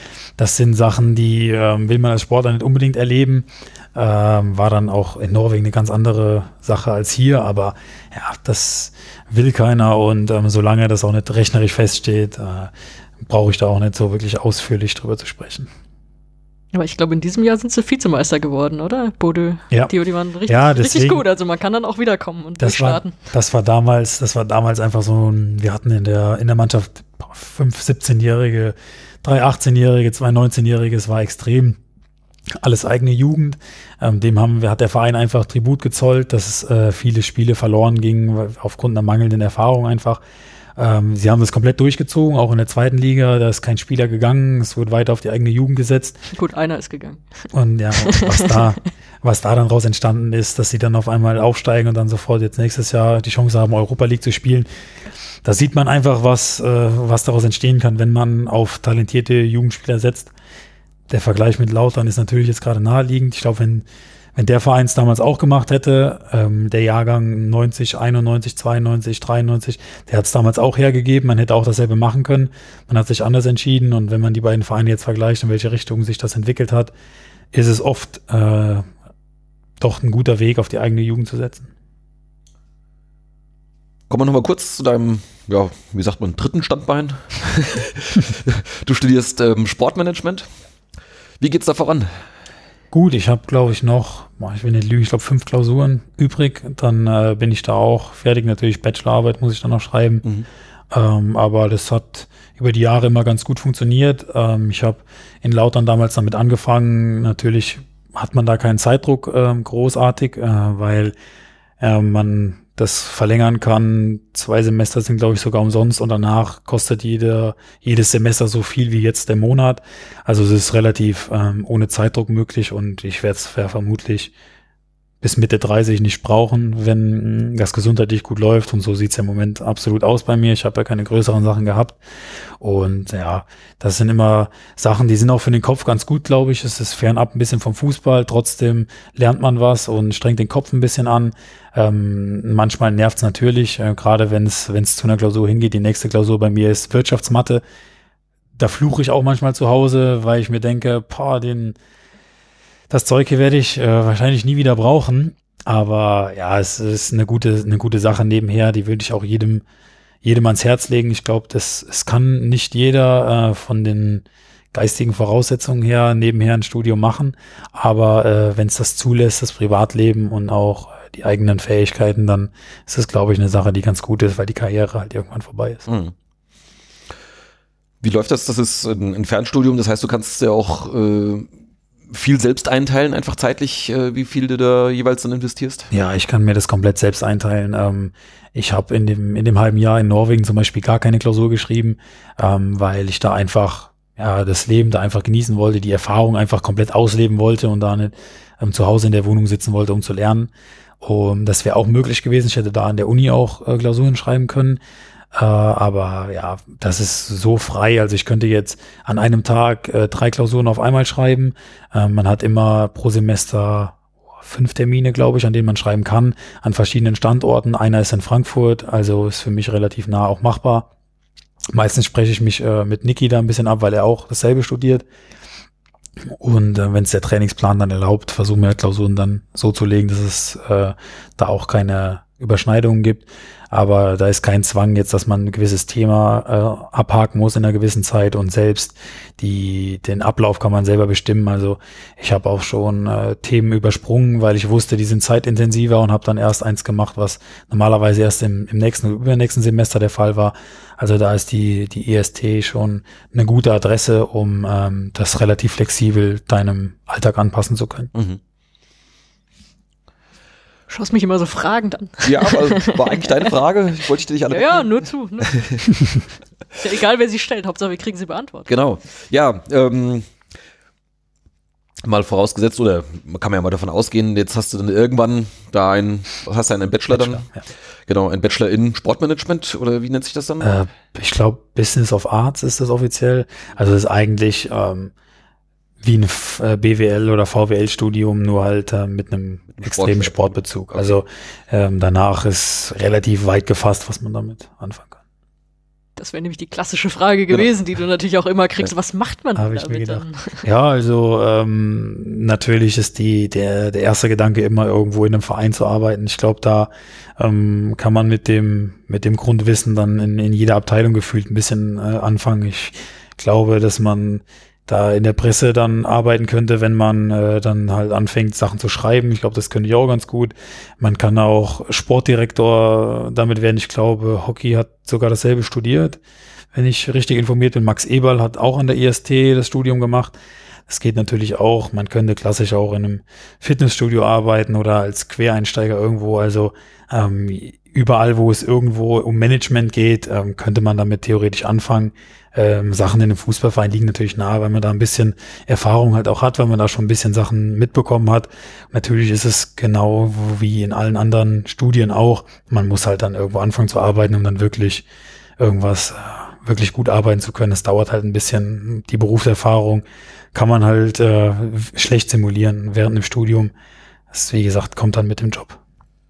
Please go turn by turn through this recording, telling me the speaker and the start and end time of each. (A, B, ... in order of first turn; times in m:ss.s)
0:00.4-0:12.7 A
0:13.2-0:15.7 A
0:16.7-0:23.1 B
0:20.5-0:21.2 A
0:22.6-0:31.8 A
0:32.6-0:40.2 A
0:40.8-0:46.2 A
0:46.3-0:47.2 B
0:47.5-0:54.7 A
0:48.0-0:48.7 B
0:55.4-1:00.3 A
1:01.1-1:03.8 A
1:04.4-1:16.9 A
1:17.5-1:18.9 A
1:19.8-1:21.7 A
1:24.1-1:30.4 C
1:31.4-1:32.1 C
1:32.9-1:40.2 A
1:40.9-1:51.1 A
1:51.8-2:04.3 A
2:05.2-2:12.0 A
2:12.6-2:27.6 A
2:28.6-2:31.8 A
2:32.9-2:39.6 A
2:40.2-2:55.9 A
2:55.9-2:56.1 C
2:58.0-3:01.5 C
3:02.1-3:05.9 C
3:05.9-3:20.5 A
3:21.0-3:24.8 A
3:25.3-3:40.9 A
3:41.7-3:45.0 A
3:46.3-4:18.1 A
4:18.1-4:18.4 C
4:20.9-4:23.5 B
4:22.2-4:24.9 C
4:24.5-4:25.9 B
4:25.5-4:25.7 C
4:26.8-4:28.7 B
4:28.7-4:30.3 C
4:32.0-4:37.4 C
4:37.1-4:37.6 A
4:38.1-4:40.7 C
4:40.6-4:45.1 A
4:46.0-4:55.2 A
4:49.7-4:51.2 C
4:56.2-5:00.6 B
4:59.6-5:26.2 A
5:26.7-5:30.3 A
5:30.9-5:55.0 A
5:55.6-6:03.7 A
6:04.3-6:05.8 A